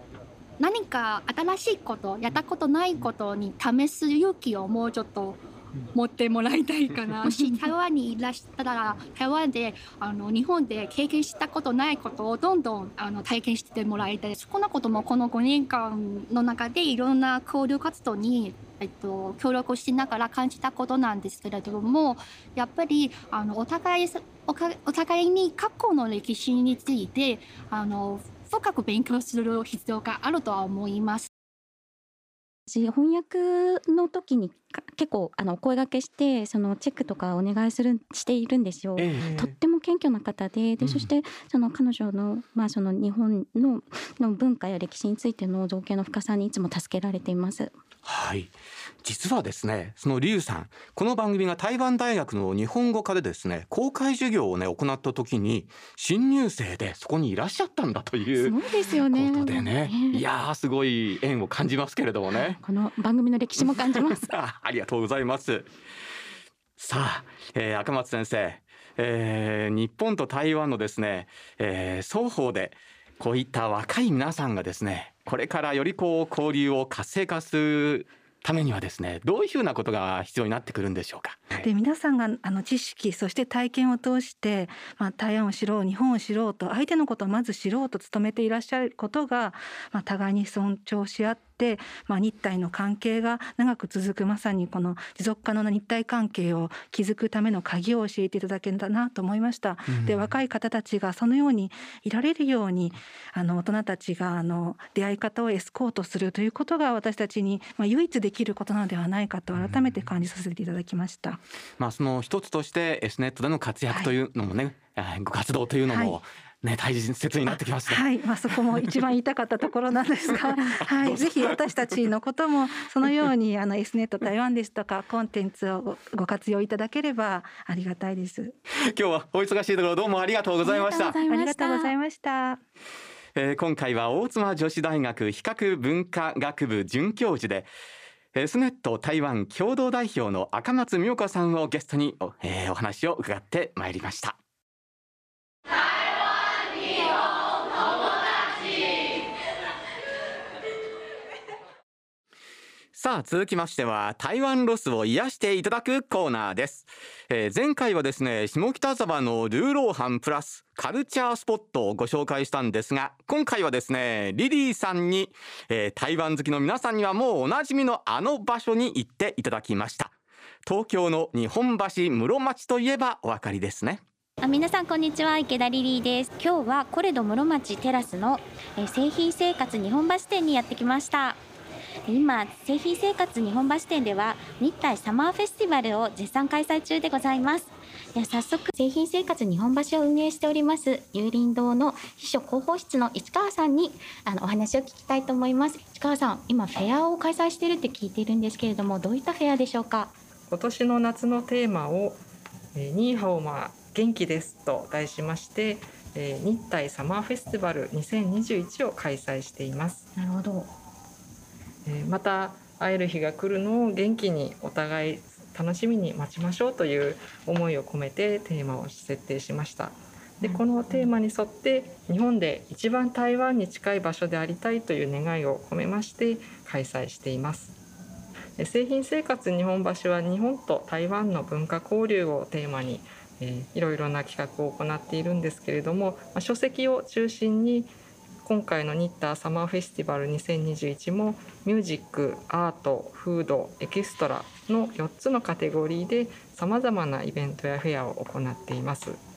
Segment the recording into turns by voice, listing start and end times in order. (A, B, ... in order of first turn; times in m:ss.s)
0:00.6-0:05.4 A
0:05.9-0:31.3 A
0:07.3-0:07.5 B
0:32.7-0:47.7 B
0:39.0-0:39.5 C
0:40.8-0:41.1 C
0:48.0-0:48.5 C
0:49.0-1:02.6 C
0:58.4-1:00.2 B
1:02.4-1:04.3 B
1:03.6-1:05.7 C
1:06.8-1:21.7 C
1:21.6-1:51.4 D
1:39.9-1:40.3 C
1:49.6-1:49.9 C
1:51.8-1:59.0 C
1:55.9-1:56.2 D
1:57.5-2:08.6 D
2:00.5-2:02.0 C
2:08.8-2:11.2 C
2:10.6-2:11.9 B
2:11.2-2:12.6 D
2:13.4-2:17.7 C
2:18.3-2:24.4 C
2:32.9-2:50.1 C
2:50.6-2:54.0 C
2:54.4-3:01.4 B
3:02.1-3:20.1 B
3:20.5-3:22.2 E
3:22.7-3:30.1 E
3:30.2-3:30.7 B
3:31.8-3:47.8 E
3:40.4-3:41.1 B
3:48.6-3:57.9 E
3:58.4-4:09.2 E